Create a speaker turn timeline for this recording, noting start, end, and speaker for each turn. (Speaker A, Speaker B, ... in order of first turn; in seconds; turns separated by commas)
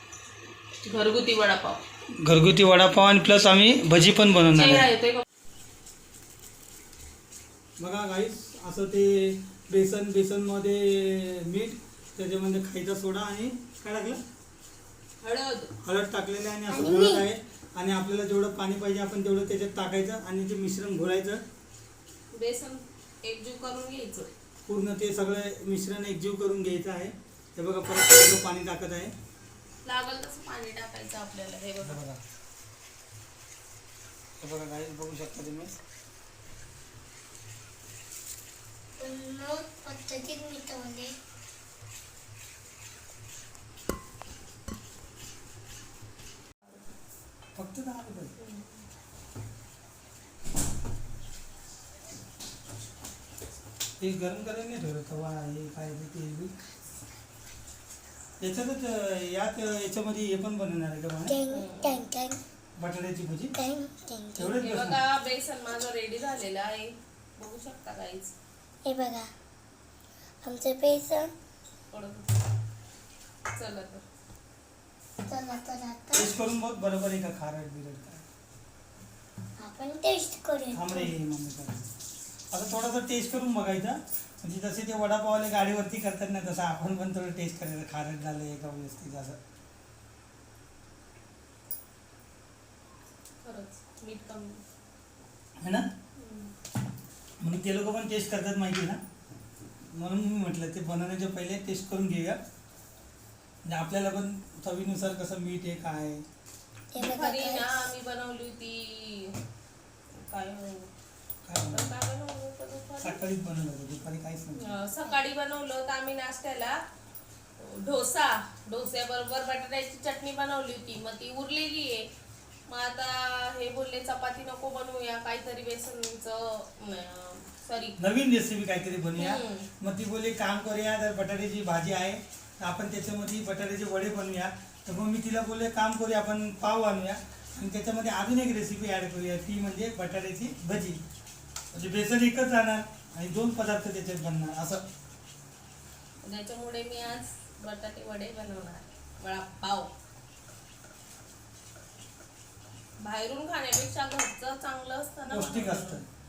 Speaker A: 0.8-1.8, Speaker B: 2.2-4.9, Speaker A: 4.5-5.2, Speaker B: 7.8-14.2, Speaker A: 15.2-15.7, Speaker B: 15.8-21.4, Speaker C: 16.7-17.2, Speaker A: 22.3-24.3, Speaker B: 24.7-29.1, Speaker A: 29.9-32.0, Speaker B: 31.8-32.2, Speaker B: 34.4-35.8, Speaker C: 39.0-41.1, Speaker B: 47.5-48.4, Speaker A: 48.4-48.8, Speaker B: 54.0-56.5, Speaker B: 58.4-61.4, Speaker C: 61.3-62.4, Speaker A: 61.5-62.0, Speaker B: 62.8-63.5, Speaker C: 63.6-64.6, Speaker B: 64.4-65.0, Speaker A: 64.5-68.3, Speaker C: 68.8-69.3, Speaker C: 70.4-71.3, Speaker A: 71.9-72.5, Speaker A: 73.6-74.0, Speaker C: 75.3-76.3, Speaker B: 76.1-78.2, Speaker C: 79.6-81.1, Speaker B: 80.7-81.9, Speaker B: 82.5-89.4, Speaker A: 93.4-94.6, Speaker B: 95.6-95.9, Speaker A: 96.2-96.5, Speaker B: 97.4-99.0, Speaker B: 99.9-102.4, Speaker B: 103.7-106.2, Speaker C: 106.9-107.9, Speaker A: 107.0-109.3, Speaker A: 110.2-110.9, Speaker B: 111.5-111.9, Speaker A: 111.7-113.2, Speaker B: 113.0-114.7, Speaker A: 114.6-116.8, Speaker A: 117.6-122.1, Speaker A: 122.7-128.0, Speaker B: 128.0-141.0, Speaker A: 129.2-129.7, Speaker B: 141.7-144.8, Speaker A: 146.2-149.9, Speaker A: 153.0-156.0, Speaker B: 155.3-156.1